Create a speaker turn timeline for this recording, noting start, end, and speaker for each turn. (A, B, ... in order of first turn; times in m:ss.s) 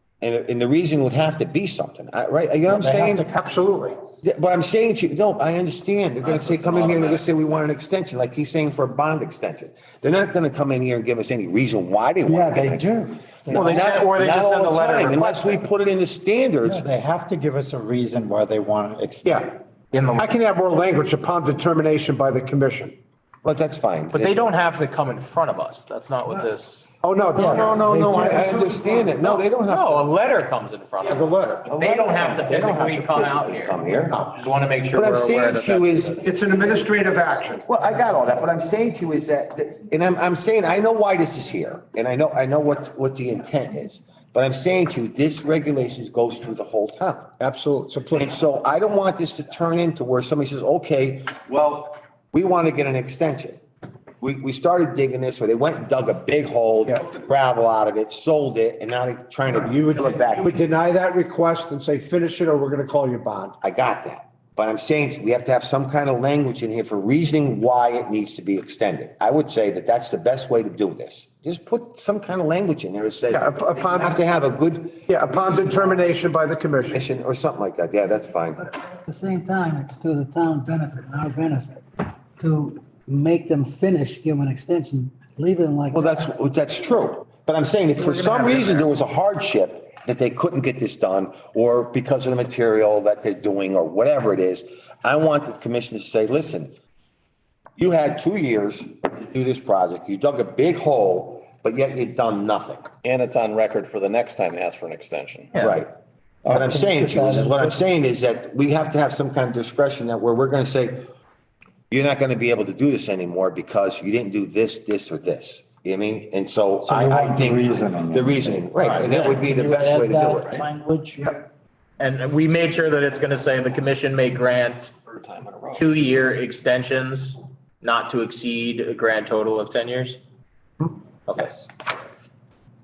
0:00.2-0:03.3 A
0:02.7-0:03.8 B
0:03.4-0:03.9 C
0:04.2-0:12.9 A
0:12.2-0:13.9 B
0:13.5-0:16.9 A
0:13.5-0:15.6 D
0:16.6-0:19.5 B
0:19.2-0:19.6 C
0:19.9-0:20.3 D
0:20.2-0:22.9 C
0:23.4-0:24.5 A
0:24.1-0:26.9 D
0:27.0-0:29.4 C
0:27.4-0:30.1 A
0:27.4-0:27.9 B
0:29.7-0:36.2 D
0:31.0-0:31.7 C
0:31.7-0:34.2 A
0:34.9-0:36.2 A
0:36.2-0:37.7 C
0:37.6-0:47.3 A
0:47.4-0:48.3 C
0:48.1-0:53.6 A
0:54.2-1:00.6 A
0:59.5-1:03.6 C
1:03.6-1:16.0 A
1:13.3-1:14.2 C
1:15.1-1:17.0 C
1:16.9-1:18.7 A
1:18.6-1:26.3 E
1:25.9-1:36.8 A
1:28.0-1:28.9 D
1:37.8-1:42.9 A
1:43.0-1:45.5 F
1:45.5-1:45.8 D
1:45.6-1:45.9 A
1:46.5-1:51.1 A
1:46.5-1:47.7 B
1:51.9-2:00.6 A
1:56.9-2:01.3 B
2:01.2-2:01.4 C
2:02.0-2:04.9 D
2:05.0-2:06.0 F
2:05.7-2:10.2 D
2:11.3-2:11.5 D